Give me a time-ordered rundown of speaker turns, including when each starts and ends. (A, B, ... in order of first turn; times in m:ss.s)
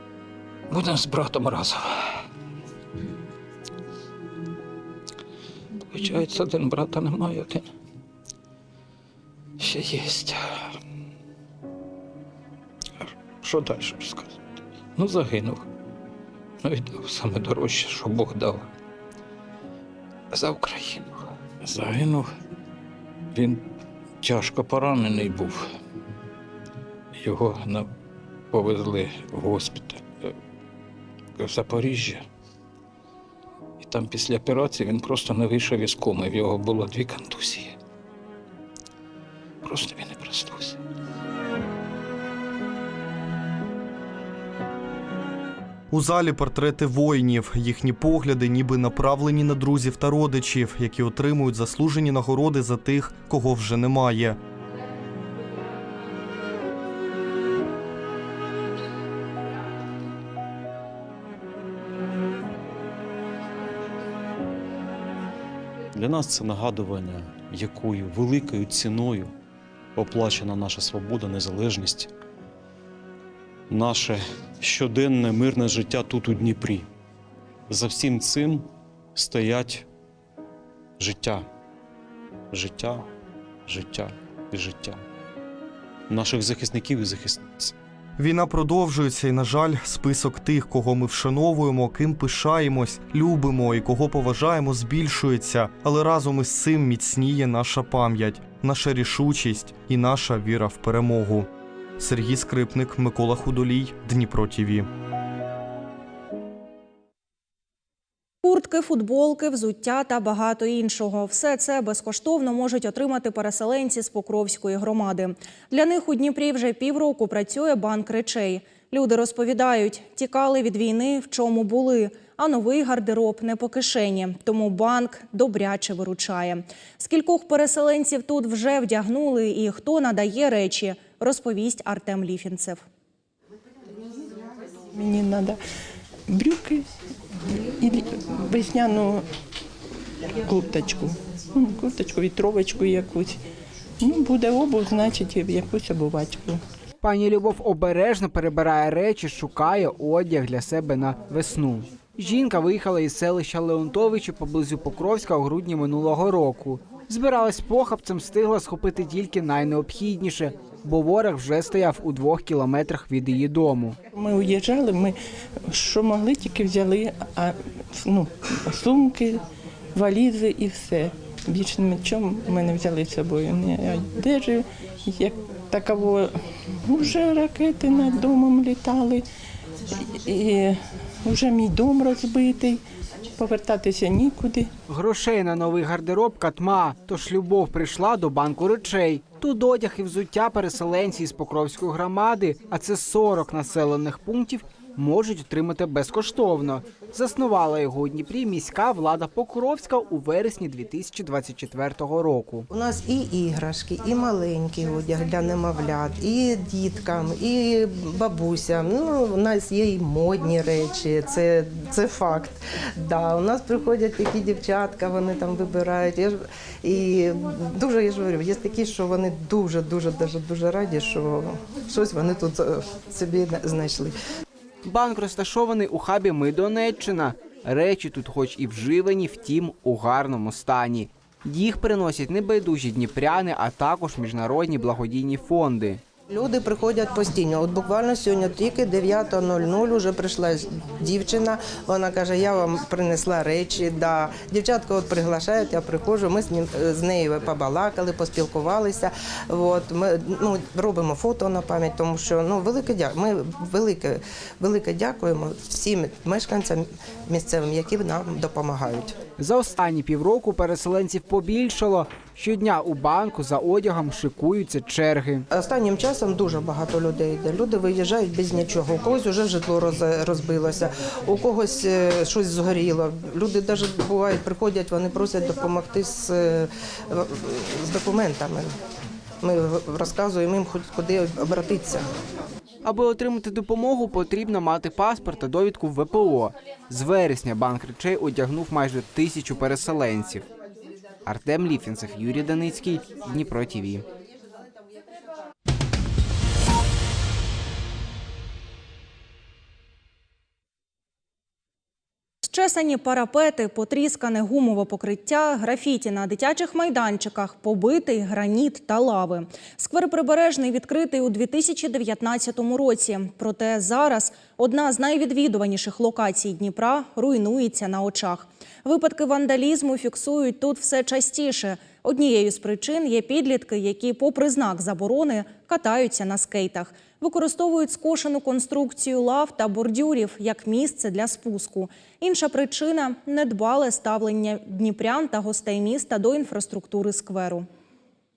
0:00.7-0:02.0 A
0:05.8-0:07.7 A
0:09.6-0:10.7 A
0:13.0-0:14.4 A
0:14.9-0:15.6 A
0:16.6-0:18.7 A
0:20.3-0:22.3 A
0:23.3-0:23.6 A
0:24.2-0:25.6 A
0:27.1-0:27.9 A
0:28.5-0:30.3 A
0:31.4-0:32.2 A
0:33.8-0:37.8 A
0:39.6-0:40.8 A
0:45.9-0:54.4 B
1:05.9-1:09.3 C
1:10.0-1:12.1 C
1:13.7-1:16.6 C
1:17.7-1:18.6 C
1:19.2-1:19.8 C
1:21.0-1:21.4 C
1:22.5-1:23.0 C
1:23.7-1:24.9 C
1:26.1-1:27.7 C
1:28.2-1:44.9 B
1:48.4-2:12.8 D
2:14.9-2:15.6 E
2:16.3-2:16.9 E
2:17.8-2:19.2 E
2:20.4-2:23.4 E
2:24.0-2:26.6 E
2:27.0-2:44.0 F
2:44.1-2:45.2 E
2:45.7-2:49.4 E
2:49.9-2:56.3 E
2:56.9-2:59.2 E
3:00.2-3:02.8 E
3:03.4-3:04.7 E
3:04.9-3:22.7 F
3:22.7-3:44.1 G
3:44.8-3:56.0 F
3:56.3-4:19.2 G
4:19.4-4:25.4 F
4:25.5-4:38.7 G
4:39.4-4:42.1 G
4:42.8-4:50.4 F
4:51.2-4:54.0 F
5:02.4-5:37.7 D